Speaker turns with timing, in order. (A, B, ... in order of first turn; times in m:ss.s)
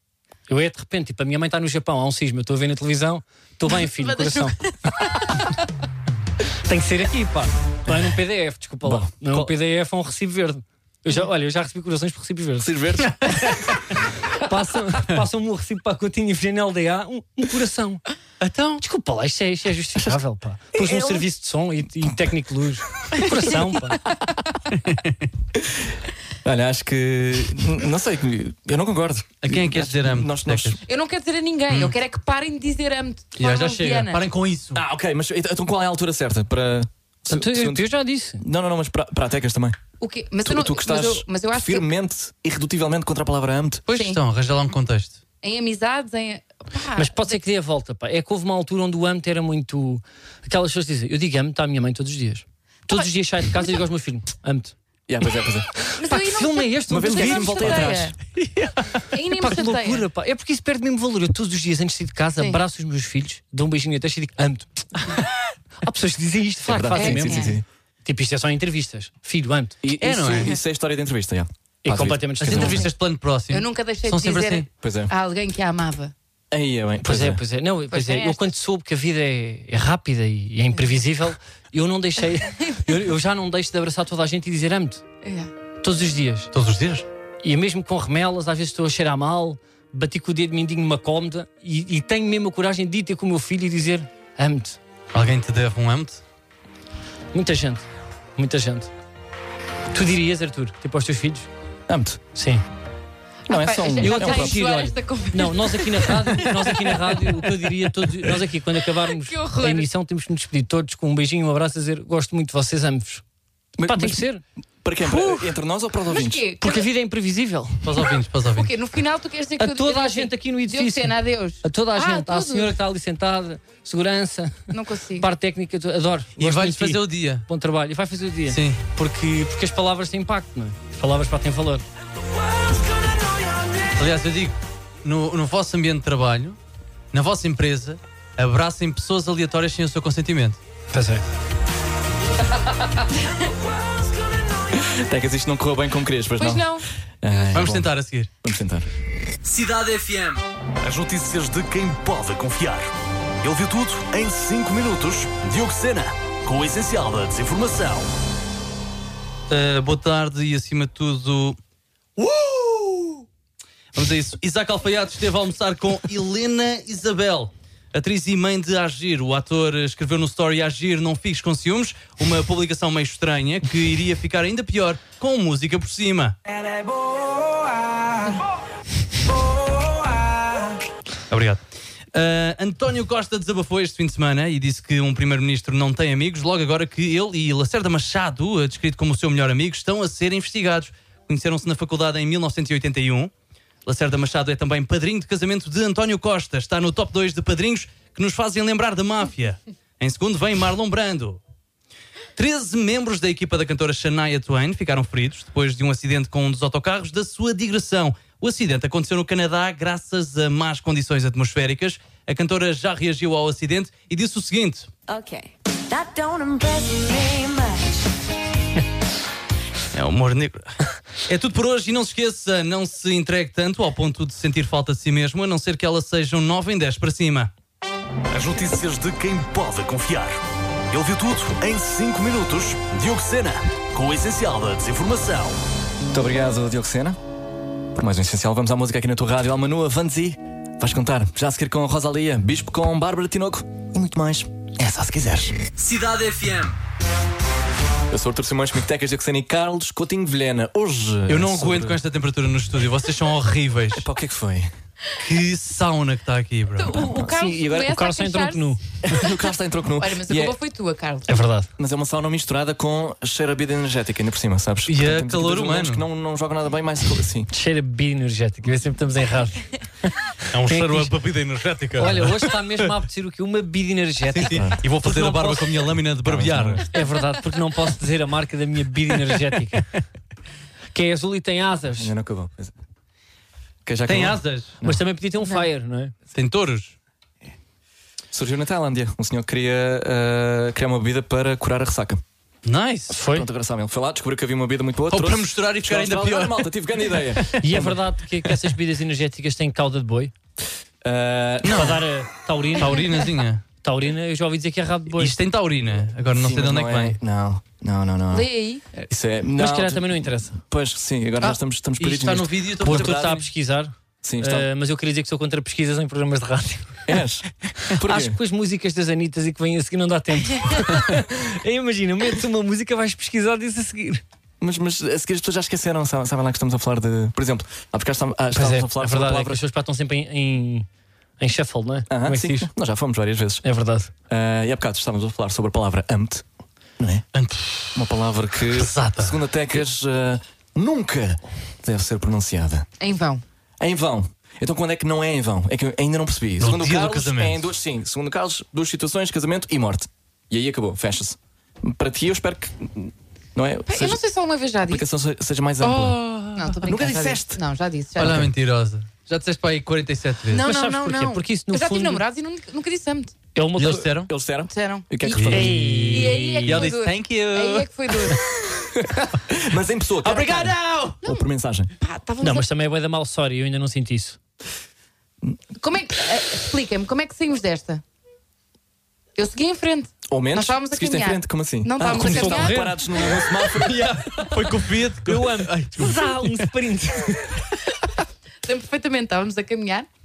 0:00.5-0:04.6 A
0:03.8-0:05.5 B
0:06.6-0:12.7 A
0:08.8-0:09.5 C
0:12.6-0:13.5 C
0:13.3-0:13.6 D
0:14.3-0:18.0 A
0:18.4-0:18.8 D
0:18.8-0:24.0 A
0:20.7-0:21.2 C
0:24.7-0:25.2 D
0:25.6-0:25.8 C
0:26.4-0:30.8 C
0:29.4-0:30.8 D
0:30.8-0:34.2 B
0:31.7-0:32.0 D
0:33.4-0:34.8 D
0:34.7-0:37.8 C
0:37.3-0:38.4 A
0:38.4-0:39.8 C
0:40.0-0:41.9 B
0:40.4-0:43.8 C
0:43.9-0:45.2 D
0:43.9-0:44.2 B
0:45.4-0:47.4 B
0:47.0-0:54.7 A
0:52.9-0:53.7 B
0:55.1-0:55.7 C
0:55.8-1:05.2 A
0:56.0-0:58.1 B
0:56.9-0:58.2 C
0:59.1-1:00.0 B
1:05.8-1:09.8 A
1:06.6-1:07.6 C
1:06.9-1:07.6 B
1:09.8-1:12.8 C
1:10.0-1:10.5 D
1:10.3-1:10.6 B
1:11.8-1:12.9 A
1:12.4-1:14.6 D
1:13.5-1:16.1 B
1:14.8-1:15.1 C
1:16.5-1:17.4 C
1:17.0-1:25.0 A
1:17.9-1:18.4 B
1:22.7-1:22.9 B
1:25.2-1:25.5 B
1:25.8-1:26.5 A
1:26.5-1:27.0 D
1:27.4-1:34.8 A
1:35.1-1:36.2 D
1:37.3-1:38.9 A
1:39.9-1:41.5 A
1:41.9-1:42.2 C
1:42.3-1:42.6 A
1:43.5-1:44.7 C
1:43.5-1:47.4 B
1:44.0-1:53.2 A
1:49.1-1:49.9 B
1:53.8-1:54.2 C
1:53.8-1:54.4 A
1:54.8-1:56.4 C
1:55.0-1:55.5 A
1:56.1-1:56.9 B
1:56.6-1:57.9 A
1:57.8-1:58.7 D
1:58.5-2:02.7 B
1:59.6-2:11.8 A
2:04.7-2:05.3 B
2:06.4-2:07.4 D
2:08.5-2:08.8 D
2:13.9-2:16.6 D
2:17.1-2:20.6 D
2:20.9-2:21.2 A
2:24.7-2:27.9 C
2:26.4-2:27.6 B
2:27.5-2:28.3 D
2:28.4-2:28.9 C
2:29.4-2:32.9 E
2:33.4-2:38.1 E
2:39.5-2:41.6 D
2:42.2-2:43.1 E
2:43.9-2:56.4 D
3:01.3-3:01.6 D
3:02.1-3:13.3 D
3:13.8-3:21.4 D
3:22.4-3:34.9 D
3:35.1-3:38.1 F
3:39.9-3:47.5 D
3:48.3-3:50.4 E
3:50.9-3:55.6 E
3:56.1-3:57.2 C
3:57.9-4:05.6 C
4:05.7-4:06.8 E
4:08.1-4:12.0 C
4:11.3-4:14.1 D
4:13.9-4:14.7 C
4:15.2-4:17.1 D
4:16.8-4:19.4 B
4:17.0-4:17.9 C
4:17.7-4:18.8 A
4:19.0-4:20.6 C
4:20.0-4:21.4 B
4:21.3-4:21.7 A
4:21.8-4:27.5 C
4:24.9-4:26.0 D
4:27.5-4:31.1 A
4:30.5-4:32.9 D
4:32.0-4:35.9 A
4:34.3-4:36.9 D
4:34.5-4:34.8 C
4:36.2-4:36.8 C
4:36.9-4:39.9 A
4:40.9-4:42.1 A
4:42.0-4:42.7 C
4:43.8-4:45.0 C
4:44.0-4:44.7 D
4:44.8-4:46.1 A
4:46.3-4:46.9 D
4:48.3-4:52.2 C
4:52.6-4:53.1 D
4:53.1-4:53.5 A
4:53.3-4:58.0 C
4:55.1-4:57.5 D
4:57.6-5:00.3 A
5:01.0-5:02.0 C
5:01.6-5:02.0 D
5:01.7-5:03.2 A
5:02.8-5:03.6 D
5:03.8-5:05.4 A
5:05.2-5:07.2 D
5:06.3-5:08.5 C
5:08.3-5:08.9 B
5:09.1-5:13.4 C
5:09.5-5:10.6 A
5:12.0-5:13.4 D
5:12.8-5:17.2 A
5:14.2-5:14.7 C
5:17.1-5:18.4 C
5:17.9-5:24.2 A
5:24.6-5:29.6 C
5:28.5-5:30.9 A
5:31.4-5:32.7 A
5:32.1-5:33.6 C
5:33.6-5:34.1 A
5:34.3-5:36.4 C
5:37.0-5:37.2 C
5:37.3-5:38.0 D
5:37.9-5:42.8 C
5:38.7-5:39.4 D
5:43.0-5:43.4 B
5:43.8-5:54.2 C
5:46.6-5:47.7 D
5:53.9-5:55.0 B
5:54.9-5:56.2 C
5:55.8-5:56.8 D
5:56.5-5:58.5 B
5:56.8-5:57.6 C
5:58.2-6:00.6 D
6:00.5-6:03.4 B
6:00.5-6:02.2 A
6:03.5-6:04.1 A
6:03.8-6:04.3 D
6:04.2-6:06.1 C
6:04.7-6:08.4 B
6:05.2-6:08.4 D
6:05.5-6:06.9 A
6:08.9-6:11.9 C
6:10.2-6:11.2 D
6:10.3-6:10.6 B
6:12.0-6:12.6 B
6:12.4-6:14.4 A
6:15.8-6:18.0 B
6:19.4-6:22.8 B
6:20.3-6:24.5 C
6:22.0-6:23.0 A
6:23.7-6:26.7 D
6:25.2-6:27.6 A
6:28.6-6:30.1 B